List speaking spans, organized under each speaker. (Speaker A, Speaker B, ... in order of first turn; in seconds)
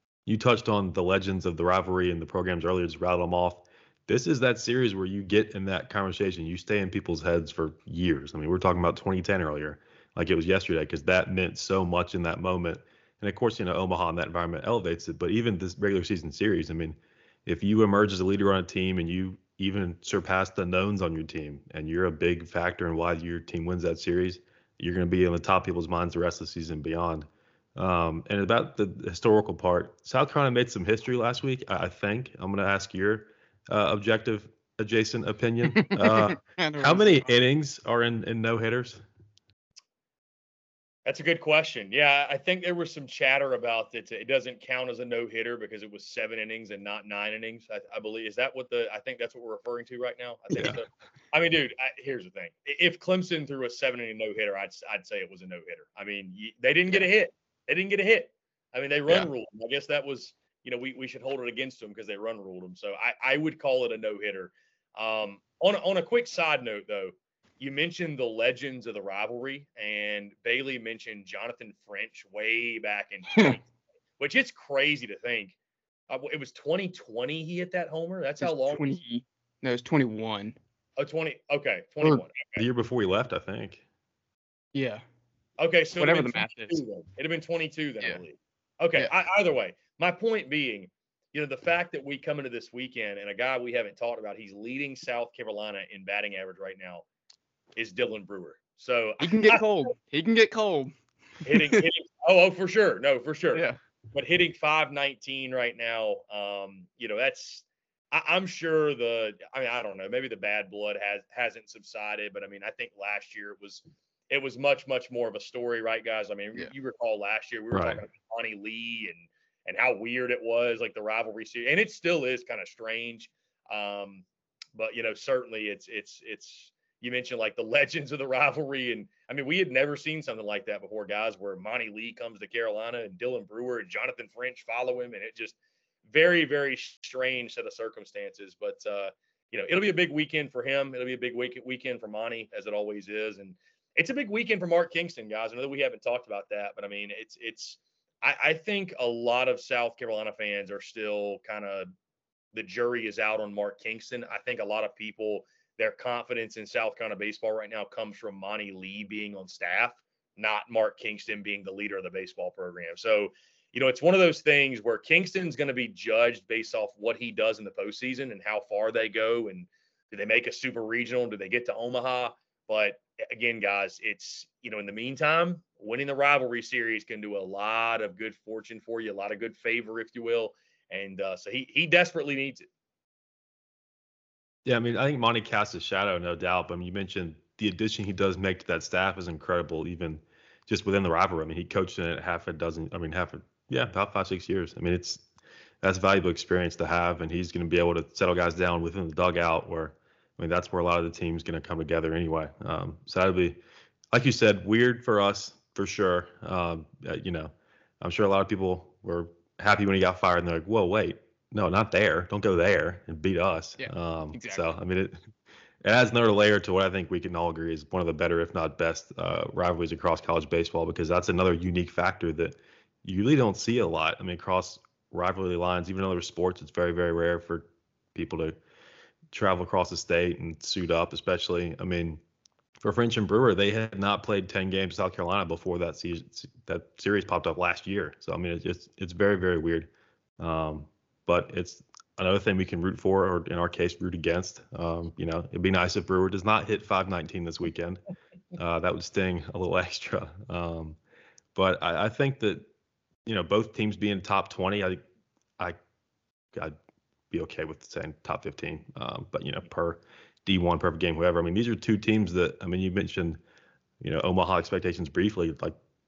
Speaker A: 0.2-39.0, 50.5-50.8, 82.6-83.8, 117.7-118.0, 184.6-195.2, 195.8-203.6, 204.1-215.2, 215.8-228.6, 229.3-232.2, 232.8-248.0, 248.5-251.0, 251.5-252.7, 253.2-255.0, 257.3-263.4, 264.0-265.8
Speaker B: 35.8-37.2, 78.4-80.5, 84.7-85.0, 86.0-86.8, 99.2-100.9, 101.4-101.8, 213.8-214.7
Speaker C: 41.0-73.7, 74.2-75.5, 76.1-78.9, 81.0-82.6, 85.6-97.0, 97.8-99.6, 101.4-135.5, 136.1-151.9, 152.5-182.7